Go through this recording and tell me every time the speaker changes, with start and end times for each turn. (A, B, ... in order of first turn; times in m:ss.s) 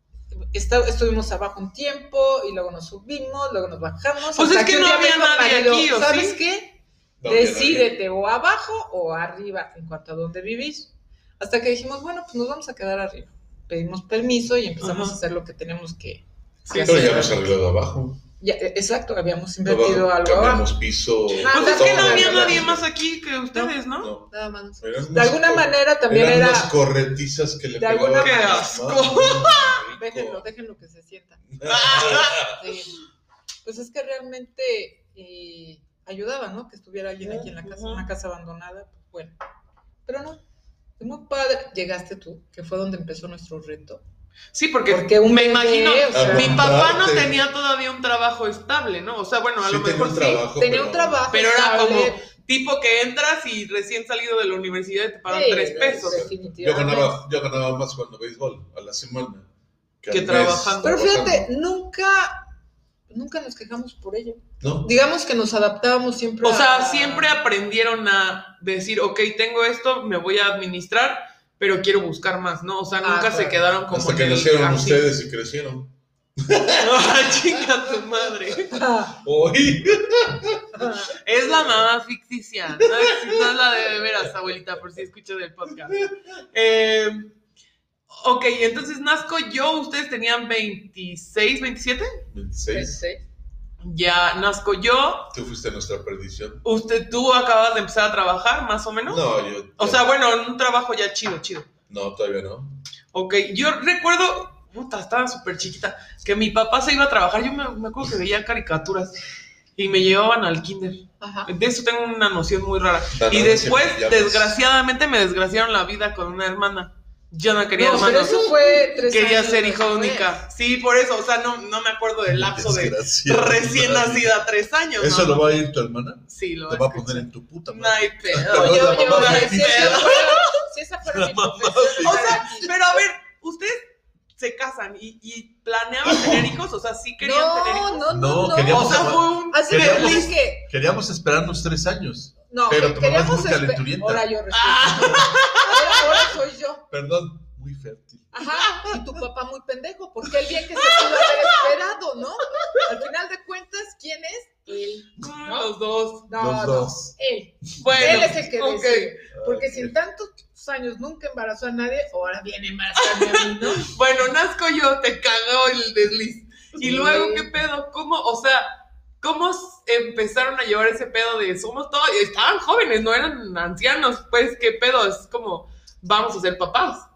0:00.5-0:17.5 A
0:04.3-0:06.4 B
0:07.2-0:07.9 C
0:14.8-0:15.2 B
0:16.7-0:17.2 B
0:16.8-0:18.2 C
0:18.4-0:20.7 A
0:19.6-0:22.9 C
0:21.4-0:22.7 A
0:21.4-0:24.1 B
0:24.0-0:30.4 C
0:24.3-0:26.7 A
0:27.8-0:28.8 A
0:28.2-0:29.8 B
0:29.8-0:33.0 A
0:31.5-0:32.6 C
0:31.6-0:32.5 B
0:33.6-0:39.3 A
0:37.2-0:38.1 B
0:40.0-0:40.4 A
0:41.0-0:44.0 A
0:44.5-0:50.4 B
0:44.9-0:46.7 A
0:46.1-0:47.3 C
0:49.6-0:51.2 C
0:50.5-0:52.2 A
0:51.3-0:56.2 B
0:55.2-0:57.2 A
0:55.7-0:59.5 C
1:00.0-1:01.5 C
1:00.1-1:01.0 B
1:00.8-1:02.4 A
1:03.1-1:07.3 A
1:04.6-1:04.9 C
1:06.4-1:15.0 B
1:13.0-1:13.7 A
1:13.9-1:16.9 C
1:16.8-1:18.8 B
1:18.7-1:19.2 A
1:19.2-1:20.9 C
1:20.8-1:21.1 A
1:21.2-1:27.3 B
1:22.8-1:24.3 C
1:25.9-1:26.1 C
1:28.1-1:32.2 B
1:32.3-1:33.0 C
1:32.7-1:33.2 A
1:33.8-1:35.3 B
1:35.3-1:36.6 C
1:36.6-1:39.2 B
1:39.1-1:40.0 C
1:39.8-1:41.7 B
1:41.9-1:42.8 C
1:43.1-1:49.2 B
1:49.8-2:05.5 B
1:51.2-1:51.5 A
1:53.1-1:54.6 C
1:57.8-2:00.4 A
2:02.2-2:04.4 C
2:05.0-2:10.3 C
2:06.3-2:10.6 B
2:08.3-2:13.0 A
2:11.0-2:12.7 C
2:12.0-2:18.1 B
2:16.0-2:16.4 C
2:17.2-2:20.7 A
2:18.1-2:24.3 C
2:18.7-2:20.3 B
2:22.5-2:26.9 A
2:24.6-2:26.2 B
2:24.8-2:25.4 C
2:26.9-2:28.4 C
2:28.3-2:35.7 A
2:35.2-2:36.3 B
2:36.3-2:44.0 A
2:36.3-2:37.2 C
2:37.8-2:39.1 B
2:37.9-2:38.4 C
2:39.3-2:39.9 C
2:43.0-2:57.1 B
2:46.8-2:47.6 A